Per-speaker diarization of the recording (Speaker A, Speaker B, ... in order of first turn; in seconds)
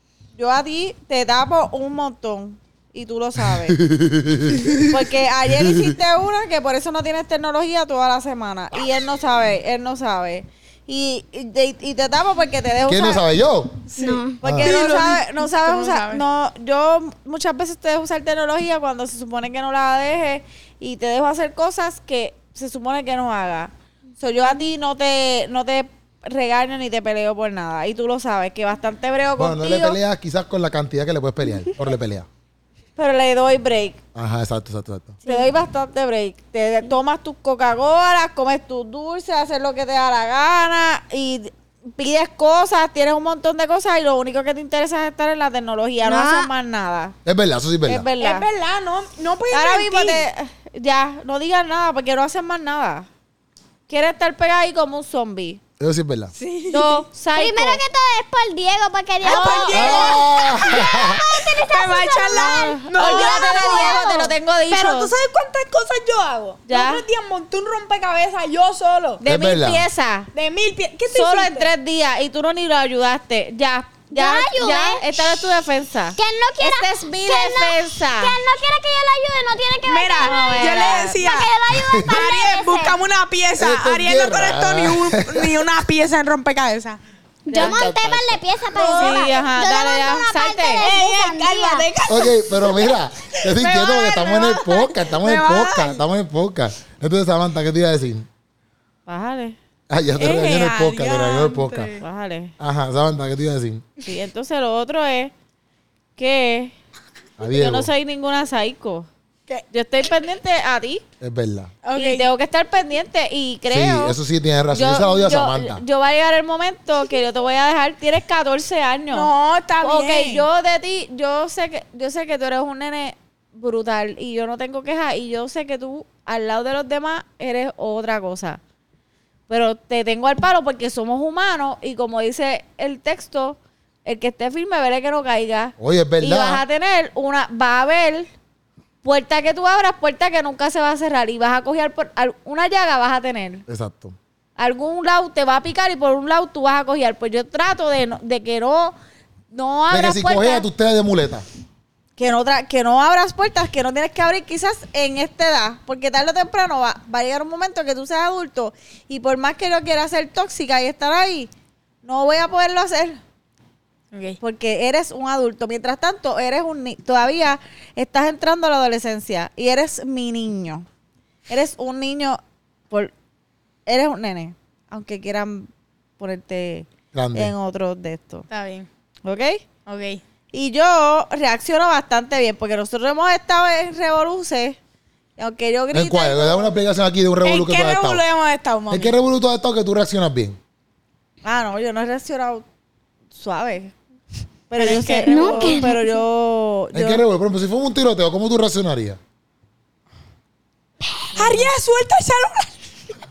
Speaker A: 0.3-3.8, 4.8-13.2, 14.4-30.0, 33.0-34.0, 35.2-47.1, 47.9-48.5, 49.5-53.1, 53.9-55.6, 56.7-57.8, 59.2-60.1, 62.3-65.1, 66.7-67.0, 69.2-70.3, 71.1-78.4, 80.2-81.2, 87.5-87.8, 88.7-90.8, 99.0-99.6, 102.0-102.5, 104.0-105.3, 106.2-106.7, 107.4-109.1, 109.7-111.0, 111.9-114.1, 114.7-128.6, 129.5-138.3, 139.0-143.6, 144.6-148.9, 149.5-150.6, 152.2-161.5, 162.0-163.2, 164.4-170.8, 171.5-173.1, 173.8-178.4, 179.2-179.6, 180.5-184.8, 185.4-186.7, 191.4-192.6, 193.3-193.9, 194.7-197.2, 201.4-201.7
Speaker B: 3.5-5.0, 5.6-5.9, 12.9-13.8, 14.4-14.9, 29.4-32.3, 34.1-35.2, 47.2-48.0, 55.8-56.3, 59.7-61.2, 69.2-69.8, 81.7-82.2, 83.6-85.7, 87.5-88.4, 92.0-98.2, 99.9-101.9, 102.6-103.8, 107.4-107.9, 111.2-111.7, 113.7-115.8, 135.8-136.6, 143.7-144.2, 149.9-151.4, 177.1-177.5, 185.9-188.2, 188.9-190.6, 196.9-199.2
Speaker C: 13.9-16.2, 48.2-50.2, 56.4-57.1, 59.2-69.2, 70.3-71.7, 79.8-81.5, 82.0-87.0, 88.7-89.3, 90.8-96.0, 100.2-102.0, 111.8-112.3, 119.1-120.5, 164.1-164.4, 178.5-178.9, 179.8-180.2, 187.4-189.1, 194.8-196.0, 201.3-202.7
Speaker D: 14.0-14.4, 46.0-46.5, 57.3-64.3, 74.1-75.1, 76.2-83.0, 87.5-91.9, 195.2-196.0